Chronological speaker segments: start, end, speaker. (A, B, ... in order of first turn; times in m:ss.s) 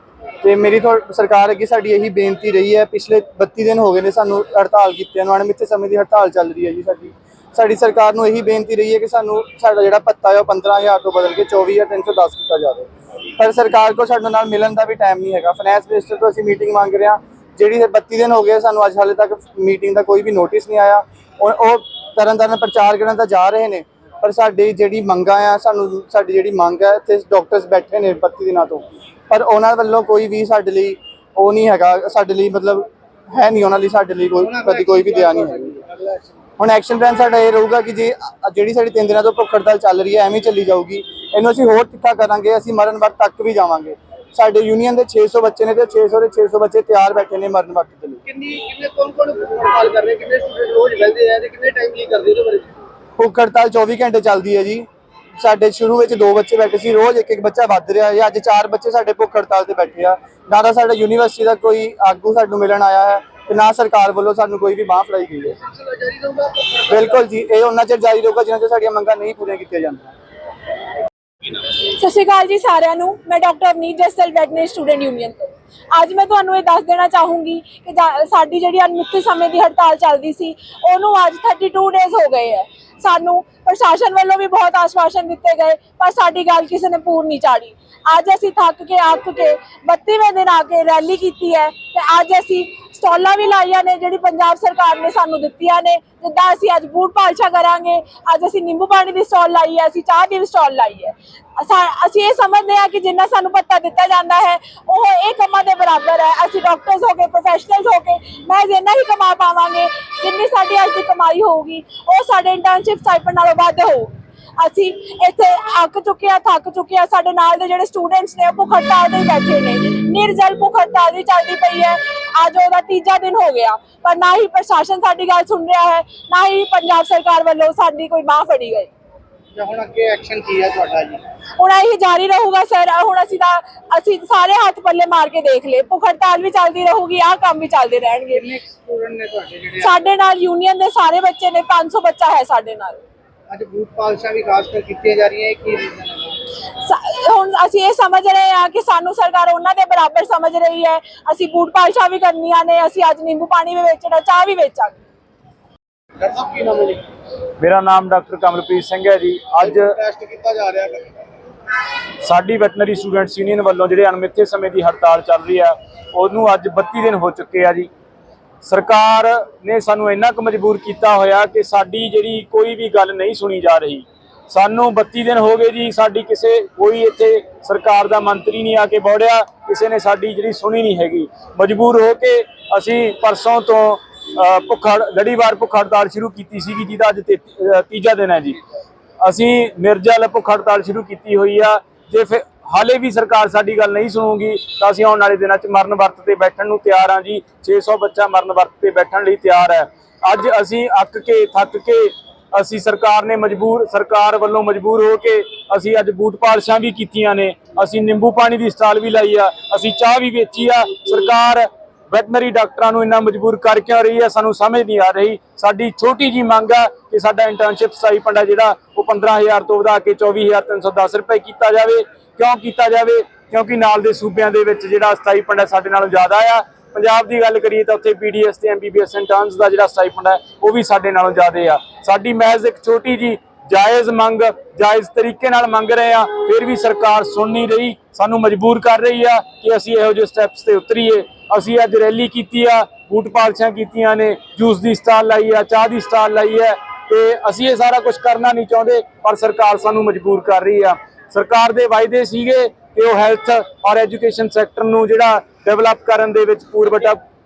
0:00.4-0:35.7 A
0:34.4-0:36.4 B
0:36.6-0:48.2 A
0:48.3-0:52.8 B
0:53.2-0:54.9 A
0:55.4-1:05.6 A
1:05.6-1:07.0 B
1:06.9-1:10.1 A
1:11.9-2:08.9 C
2:09.6-2:11.2 B
2:11.6-2:18.5 C
2:18.3-2:20.0 B
2:19.8-2:23.0 C
2:23.5-2:26.4 B
2:26.8-2:35.0 C
2:36.2-2:37.1 B
2:37.6-2:40.0 D
2:39.6-2:41.1 B
2:42.2-2:47.9 D
2:48.6-3:08.6 D
3:09.2-4:17.2 D